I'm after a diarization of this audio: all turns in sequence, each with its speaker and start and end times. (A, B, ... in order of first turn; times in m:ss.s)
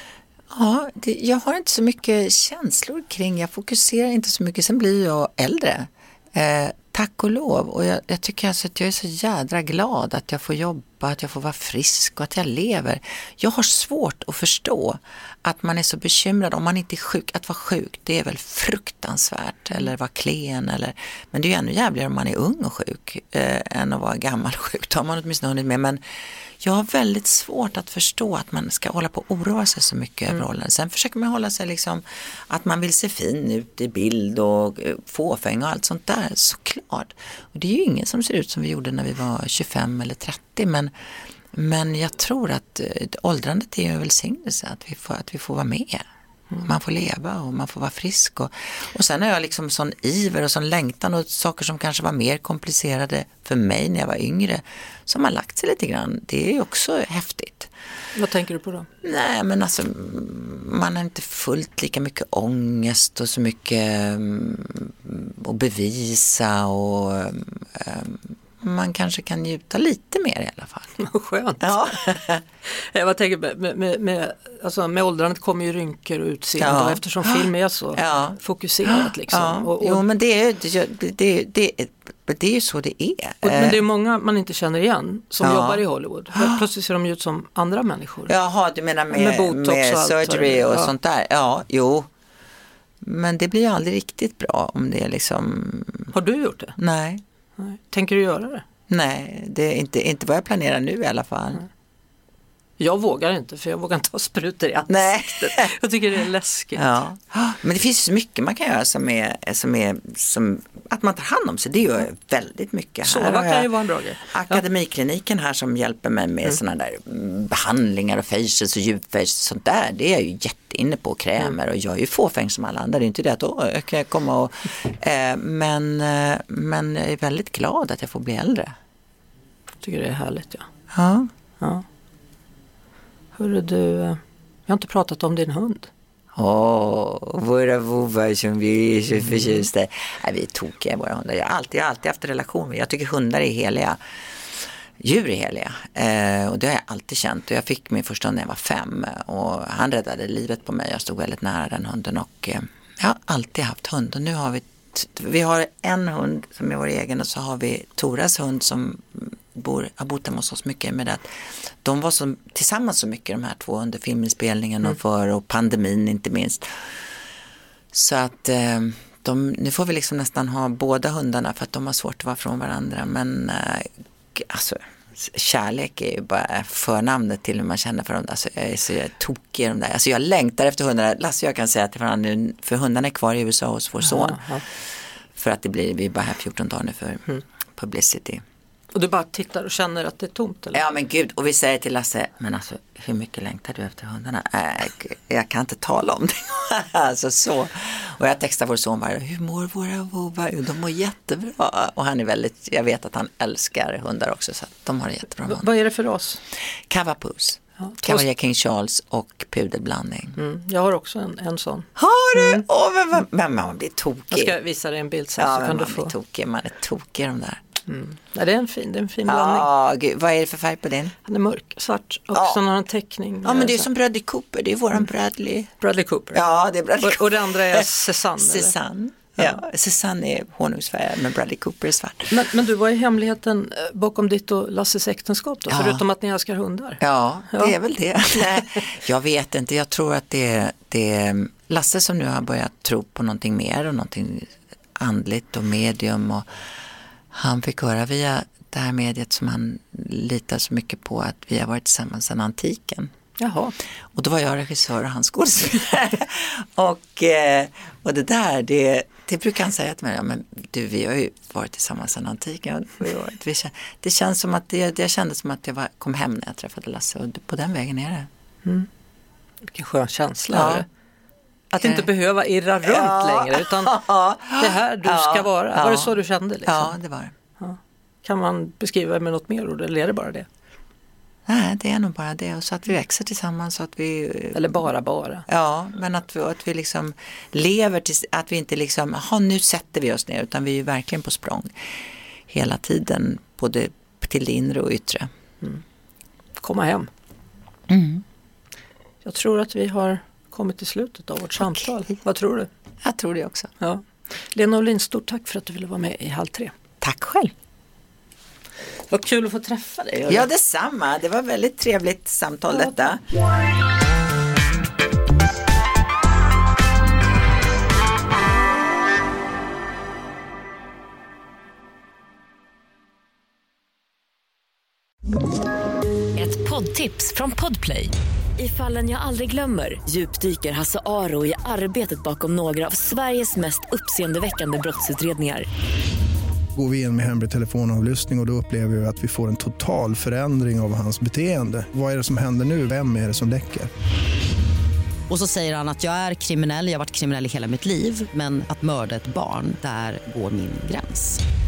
0:00.5-0:26.0 A
0:26.6-0:40.9 A
0:41.5-0:46.0 A
0:46.6-0:57.7 A
0:58.1-0:58.9 B
0:59.0-1:11.0 A
1:11.0-1:12.0 B
1:11.6-1:12.4 A
1:12.6-1:20.0 B
1:16.6-1:23.8 A
1:23.4-1:28.3 B
1:25.4-1:25.8 A
1:26.3-1:26.6 A
1:28.3-1:32.1 A
1:29.1-1:30.9 B
1:33.0-1:36.1 A
1:36.1-1:36.8 B
1:36.8-1:37.2 A
1:37.6-1:38.6 B
1:38.9-1:41.6 A
1:42.8-1:47.0 B
1:44.9-1:45.7 A
1:46.8-1:53.7 A
1:53.0-1:54.6 B
1:54.2-2:08.7 A
2:09.8-2:10.7 B
2:10.9-2:11.3 A
2:11.6-2:11.8 B
2:13.3-2:15.9 B
2:16.3-2:24.0 A
2:19.2-2:19.6 B
2:25.0-2:47.0 A
2:47.9-3:04.4 A
3:04.0-3:04.6 B
3:05.3-3:08.4 A
3:08.9-3:10.8 B
3:10.7-3:25.7 A
3:25.4-3:26.4 B
3:26.9-3:30.4 A
3:27.8-3:28.2 B
3:30.4-3:32.6 B
3:32.0-3:34.6 A
3:34.3-3:36.1 B
3:35.4-3:37.6 A
3:37.9-3:39.7 B
3:39.3-3:41.2 A
3:41.2-3:43.9 B
3:42.3-3:42.6 A
3:43.4-3:45.7 A
3:45.8-3:46.4 B
3:46.3-3:52.4 A
3:47.0-3:48.7 B
3:52.3-3:57.7 B
3:55.7-3:56.0 A
3:57.0-4:06.5 A
3:58.3-3:58.8 B
4:07.3-4:13.1 A
4:13.4-4:13.7 B
4:14.1-4:28.3 A
4:29.6-4:30.9 B
4:30.5-4:30.8 A
4:31.7-4:34.0 B
4:31.8-4:32.1 A
4:32.8-4:36.1 A
4:34.6-4:36.9 B
4:36.6-4:37.3 A
4:37.6-4:40.5 B
4:41.4-4:44.8 A
4:44.5-4:45.4 B
4:45.5-4:51.9 A
4:52.5-4:55.3 A
4:56.6-4:57.1 B
4:57.9-4:58.2 A
4:59.2-5:02.7 B
5:03.0-5:03.7 A
5:03.8-5:06.7 B
5:07.0-5:07.5 A
5:09.1-5:10.5 B
5:10.3-5:13.2 A
5:26.4-5:35.7 C
5:36.7-5:43.9 D
5:45.3-5:51.4 E